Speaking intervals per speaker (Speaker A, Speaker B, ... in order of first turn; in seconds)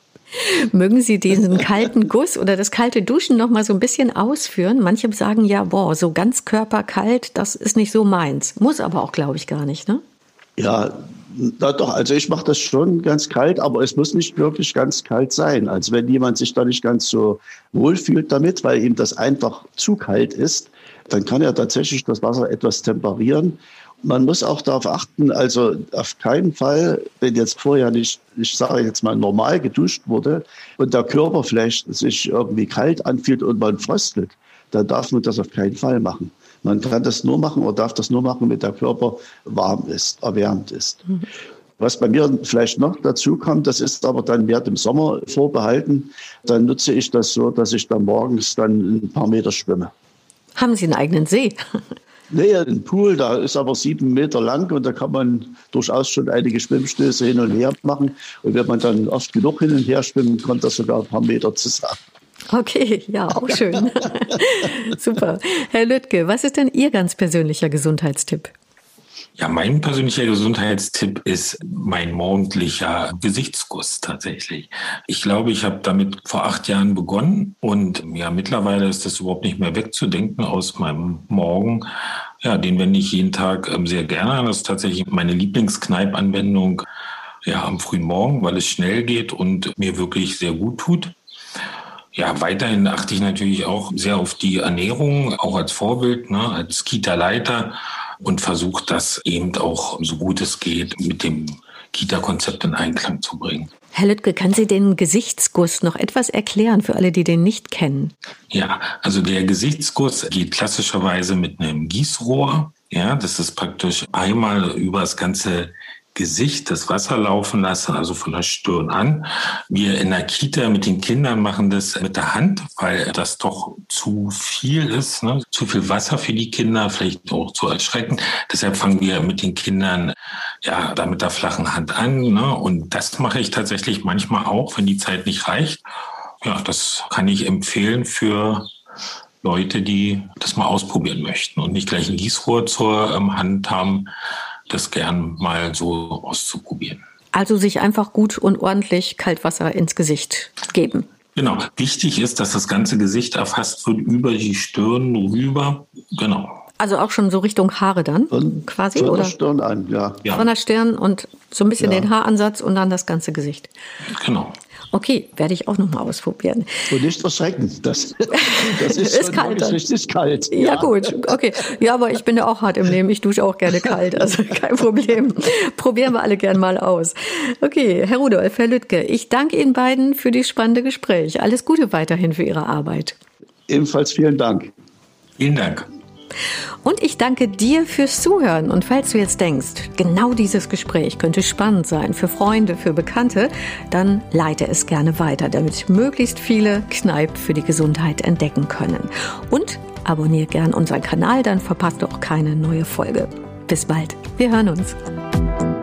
Speaker A: 0.4-10.0, 50.6-51.8, 62.5-68.5, 103.9-108.1, 147.3-151.1, 156.8-159.3, 160.3-163.7, 164.9-166.9, 168.3-169.8, 170.5-183.2, 186.8-205.0
Speaker B: 10.6-41.0, 41.8-49.9, 52.3-62.0, 63.4-64.1, 158.3-160.2, 161.8-162.1, 166.9-171.3, 183.7-184.7
Speaker C: 69.4-81.9, 82.4-86.8, 87.4-91.1, 92.1-103.7, 108.5-135.8, 136.4-138.7, 139.4-144.1, 144.7-147.0, 151.3-156.6, 164.1-164.6, 185.4-185.9